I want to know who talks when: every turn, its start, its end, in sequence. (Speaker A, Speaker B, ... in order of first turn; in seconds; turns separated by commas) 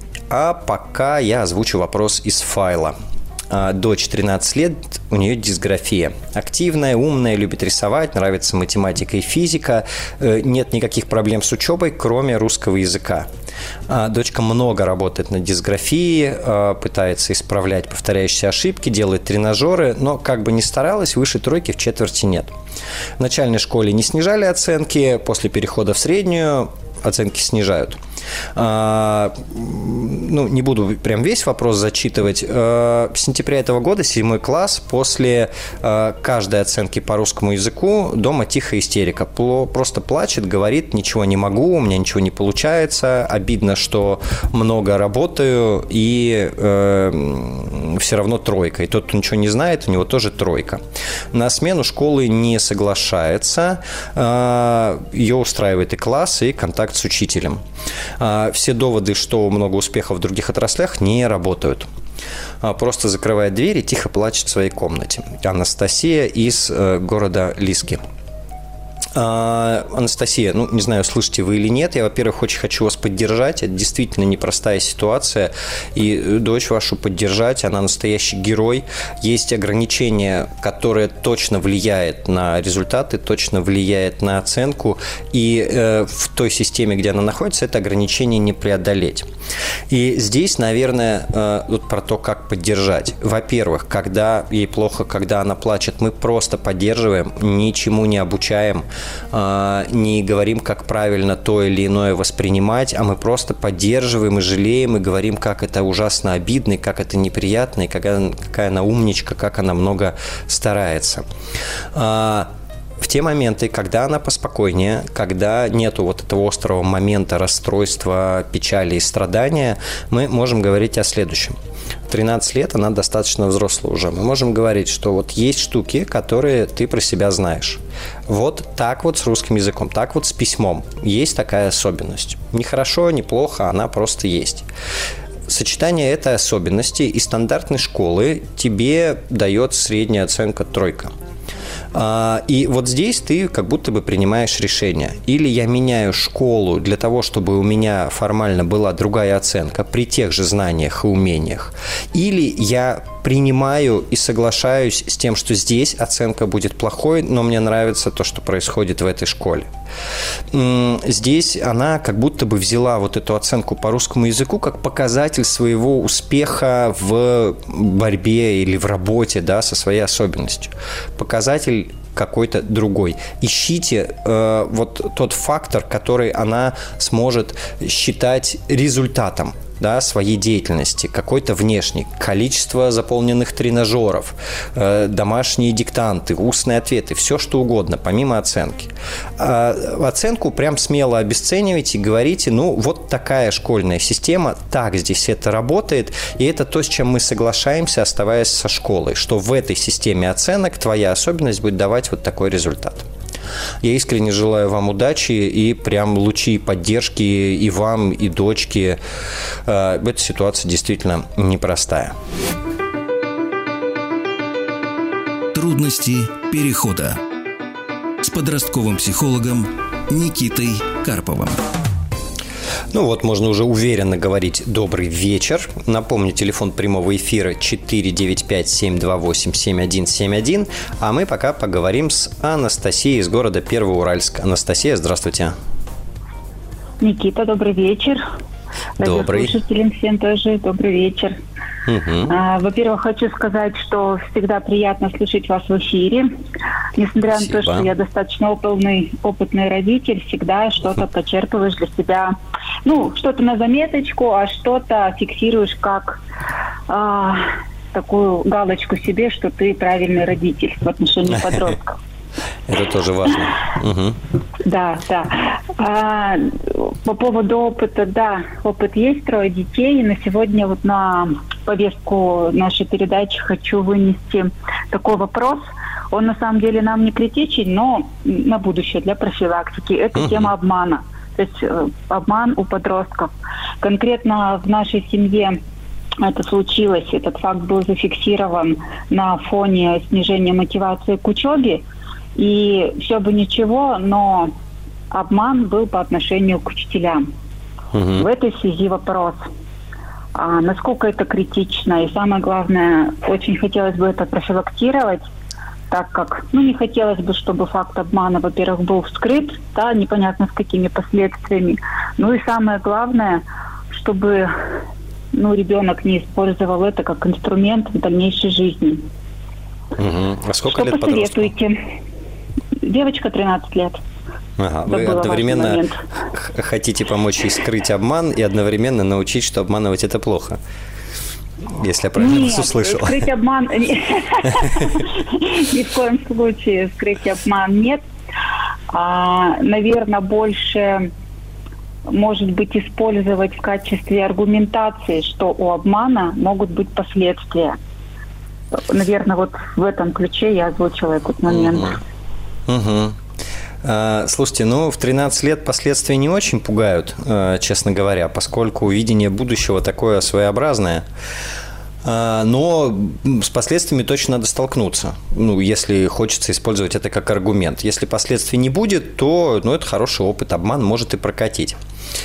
Speaker A: 0.3-2.9, Speaker A: 3.5-13.3, Speaker A: 13.9-22.5, Speaker A: 23.2-28.0, Speaker A: 28.6-50.8, Speaker A: 51.3-57.6, Speaker A: 58.2-61.9, Speaker A: 62.6-68.0, Speaker A: 69.1-89.3, Speaker A: 89.9-111.2, Speaker A: 111.9-121.5, Speaker A: 122.1-134.7, Speaker A: 135.5-141.1, Speaker A: 141.9-159.7, Speaker A: 160.5-203.1, Speaker A: 203.8-209.0, Speaker A: 209.6-212.1, Speaker B: 215.5-217.2, Speaker B: 218.2-221.7, Speaker A: 222.9-235.5, Speaker C: 237.0-238.2, Speaker C: 239.0-241.3, Speaker A: 239.0-239.6, Speaker A: 241.9-242.3, Speaker C: 242.3-246.3, Speaker C: 246.9-256.2, Speaker A: 247.3-247.9, Speaker C: 256.9-262.0, Speaker A: 262.7-264.2, Speaker C: 264.6-285.6, Speaker A: 280.1-280.5, Speaker C: 286.2-291.8, Speaker C: 292.4-294.5, Speaker C: 295.1-297.3, Speaker A: 297.9-298.2, Speaker C: 298.1-299.5, Speaker C: 300.3-305.3, Speaker C: 305.9-314.7, Speaker C: 315.3-319.0, Speaker A: 320.0-321.5, Speaker C: 320.6-321.8, Speaker C: 322.8-324.0, Speaker A: 324.6-325.8, Speaker C: 324.9-326.0, Speaker A: 326.3-330.6, Speaker A: 331.7-333.2, Speaker C: 332.2-338.0, Speaker C: 338.9-341.1, Speaker C: 342.1-347.8, Speaker C: 348.7-352.0, Speaker A: 351.5-351.9, Speaker A: 352.7-353.2, Speaker A: 353.8-361.0, Speaker A: 362.0-371.8